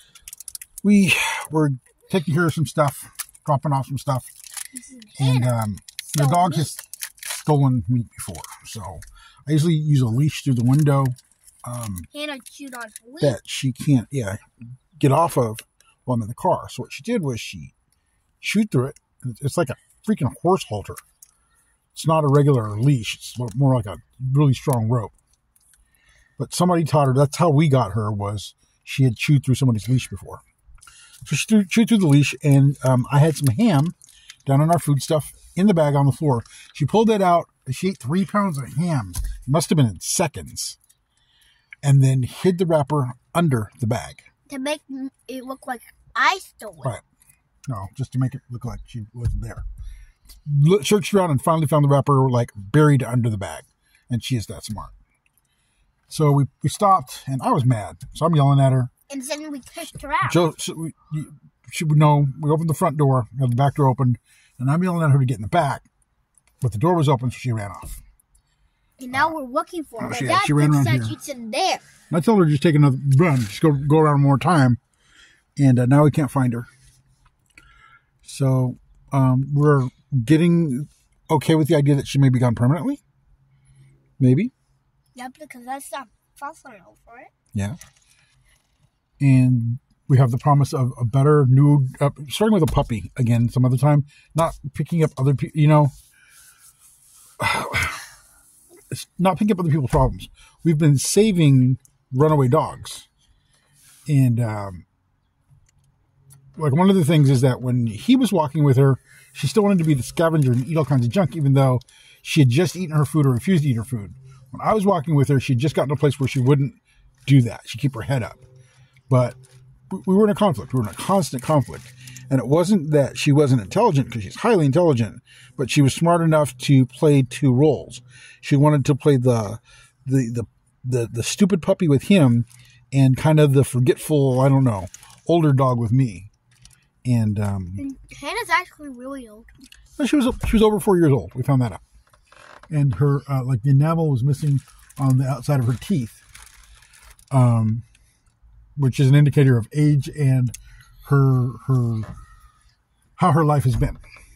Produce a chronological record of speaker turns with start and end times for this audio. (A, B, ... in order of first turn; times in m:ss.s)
0:00.8-0:04.3 A
0:04.7-0:05.5 B
0:05.2-0:12.1 A
0:06.1-0:06.7 B
0:12.1-0:13.4 B
0:13.2-0:14.4 A
0:15.0-0:17.7 A
0:18.4-0:21.0 A
0:21.9-0:25.1 A
0:26.4-0:30.4 A
0:31.2-0:33.9 A
0:34.4-0:40.8 A
0:41.8-0:44.3 A
0:44.5-0:46.9 B
0:47.7-0:49.6 A
0:50.4-0:54.9 A
0:56.1-0:58.9 A
0:59.1-1:00.4 B
1:00.2-1:05.8 A
1:06.6-1:08.0 A
1:09.0-1:11.9 B
1:10.0-1:11.2 A
1:12.1-1:14.8 A
1:15.6-1:16.7 A
1:18.2-1:23.0 A
1:24.2-1:24.5 A
1:25.1-1:27.3 B
1:29.2-1:35.9 A
1:37.4-1:38.0 A
1:38.9-1:43.1 A
1:44.1-1:44.8 A
1:46.6-1:58.4 A
1:59.1-1:59.4 A
1:59.9-2:16.3 A
2:17.0-2:17.8 A
2:17.8-2:19.5 B
2:20.0-2:21.8 A
2:22.7-2:26.2 A
2:27.3-2:27.8 A
2:28.8-2:32.1 A
2:33.2-2:34.0 A